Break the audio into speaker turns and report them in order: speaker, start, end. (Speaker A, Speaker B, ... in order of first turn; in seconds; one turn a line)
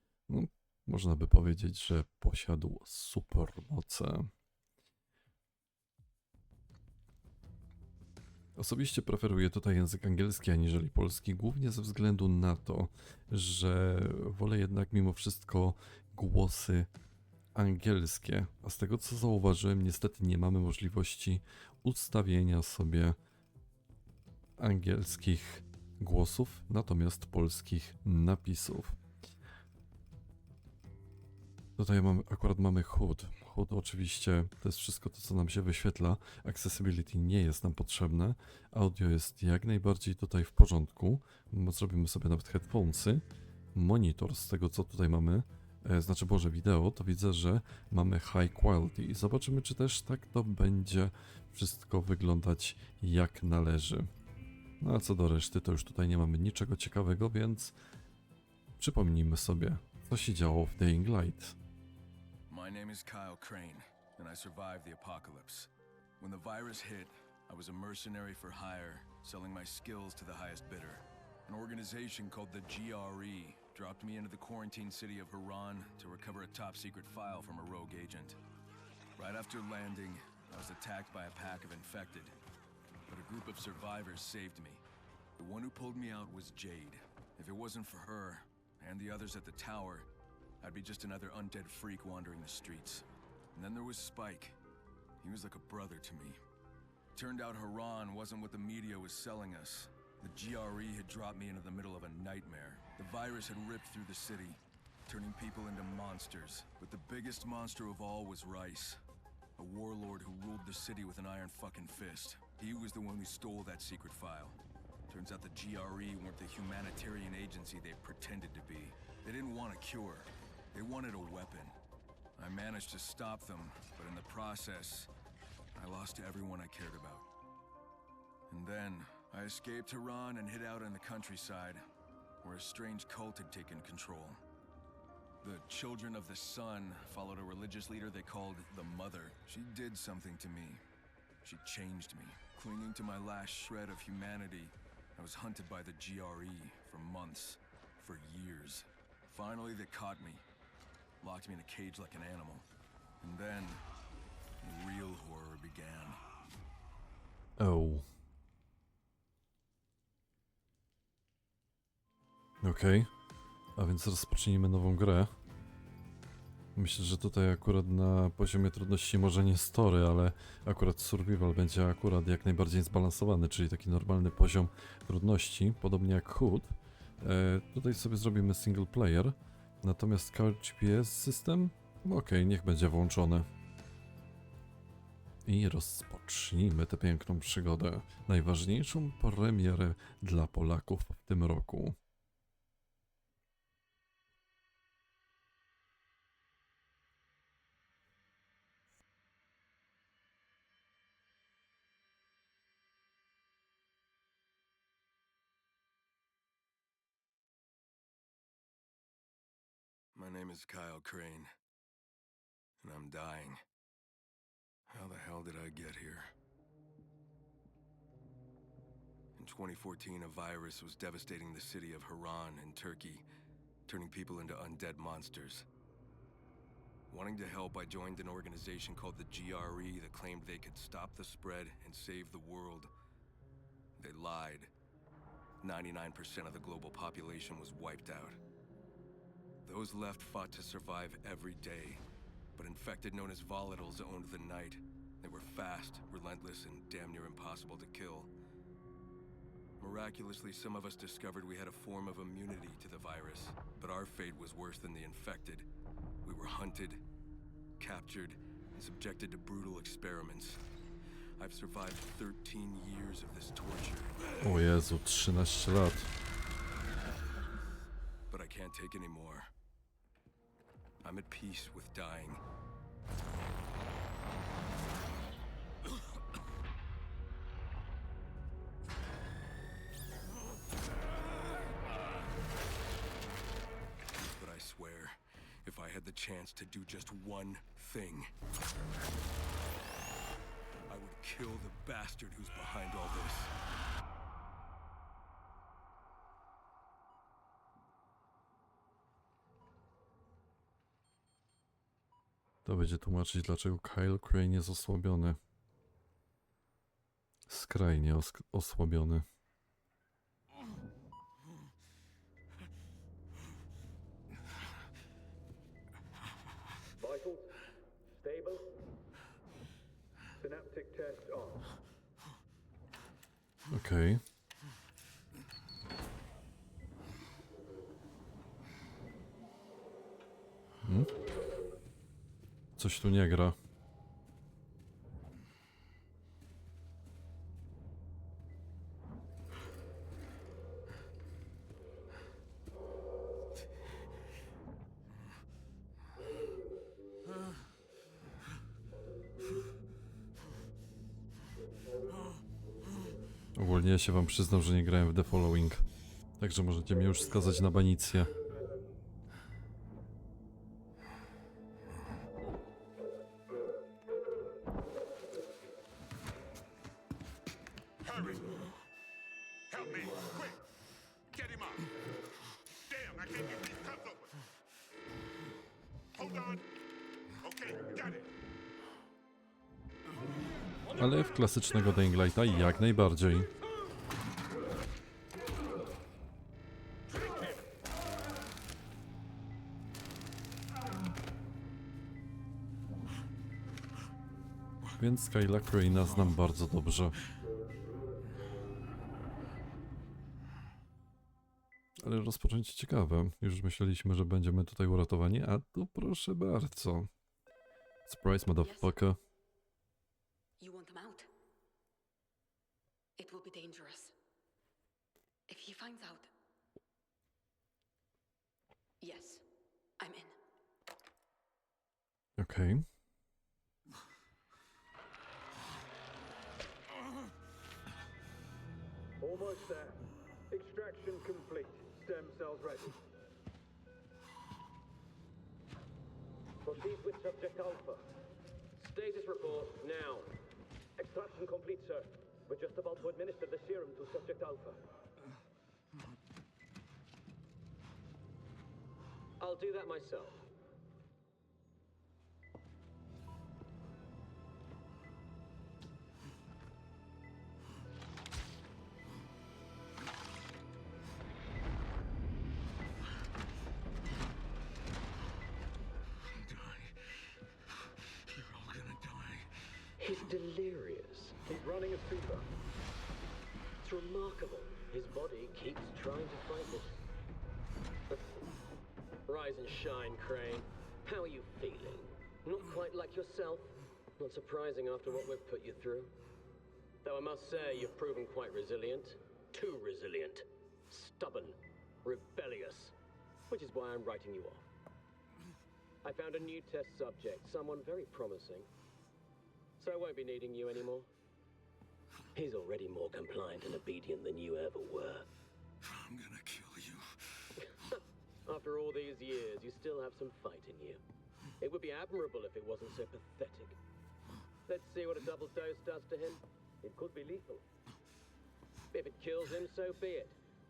Speaker A: 0.3-4.3
Speaker A: 8.6-16.9
Speaker A: 17.6-23.2
Speaker A: 24.6-29.0
Speaker A: 31.8-43.2
Speaker A: 43.7-54.1
Speaker A: 54.8-57.7
Speaker A: 58.8-61.6
Speaker B: 62.5-78.4
Speaker B: 79.2-82.3
Speaker B: 83.1-84.8
Speaker B: 85.4-90.1
Speaker B: 90.6-94.6
Speaker B: 95.2-96.4
Speaker B: 97.2-109.0
Speaker B: 109.6-114.6
Speaker B: 115.1-121.8
Speaker B: 122.4-125.1
Speaker B: 125.7-127.3
Speaker B: 128.5-131.8
Speaker B: 132.4-134.4
Speaker B: 135.4-140.8
Speaker B: 141.4-150.4
Speaker B: 151.2-152.7
Speaker B: 153.2-153.8
Speaker B: 154.6-156.2
Speaker A: 157.6-158.1
Speaker A: 162.6-163.1
Speaker A: 163.8-165.3
Speaker A: 166.8-183.5
Speaker A: 185.5-192.0
Speaker B: 210.2-211.5
Speaker B: 212.8-213.6
Speaker B: 214.9-216.3
Speaker B: 219.4-223.2
Speaker B: 223.9-225.7
Speaker B: 227.1-232.9
Speaker B: 234.0-234.7
Speaker B: 235.6-238.4
Speaker B: 239.7-242.0
Speaker B: 242.6-248.3
Speaker B: 249.8-255.7
Speaker B: 256.2-257.0
Speaker B: 257.8-260.6
Speaker B: 261.4-264.2
Speaker A: 264.4-266.1
Speaker B: 268.3-269.5
Speaker B: 271.0-272.4
Speaker B: 284.4-288.3
Speaker B: 290.9-293.5
Speaker A: 302.6-305.4
Speaker A: 307.5-309.2
Speaker C: 317.0-317.4
Speaker D: 317.0-317.3
Speaker D: 318.2-318.6
Speaker C: 318.2-318.5
Speaker C: 320.4-321.7
Speaker A: 323.7-324.2
Speaker A: 330.8-331.1
Speaker A: 332.8-333.6
Speaker A: 353.6-355.9
Speaker A: 356.4-358.3
Speaker A: 381.0-383.5
Speaker A: 395.0-397.2
Speaker A: 402.0-407.1
Speaker A: 408.1-409.2
Speaker E: 408.6-409.0
Speaker E: 410.6-411.3
Speaker E: 413.2-414.1
Speaker E: 415.5-416.3
Speaker E: 419.0-419.5
Speaker E: 420.0-420.4
Speaker A: 422.4-422.9
Speaker C: 429.2-433.0
Speaker D: 436.6-438.1
Speaker D: 438.8-440.3
Speaker D: 441.0-444.8
Speaker D: 449.4-450.5
Speaker B: 466.3-467.4
Speaker B: 468.2-469.7
Speaker D: 470.0-471.4
Speaker C: 471.5-472.5
Speaker D: 473.8-476.9
Speaker D: 479.3-486.1
Speaker D: 487.0-492.9
Speaker D: 493.5-494.7
Speaker D: 496.0-498.7
Speaker D: 499.8-501.1
Speaker D: 502.3-505.3
Speaker B: 505.8-507.5
Speaker D: 507.6-511.0
Speaker D: 511.6-513.8
Speaker D: 514.7-517.6
Speaker D: 518.9-520.4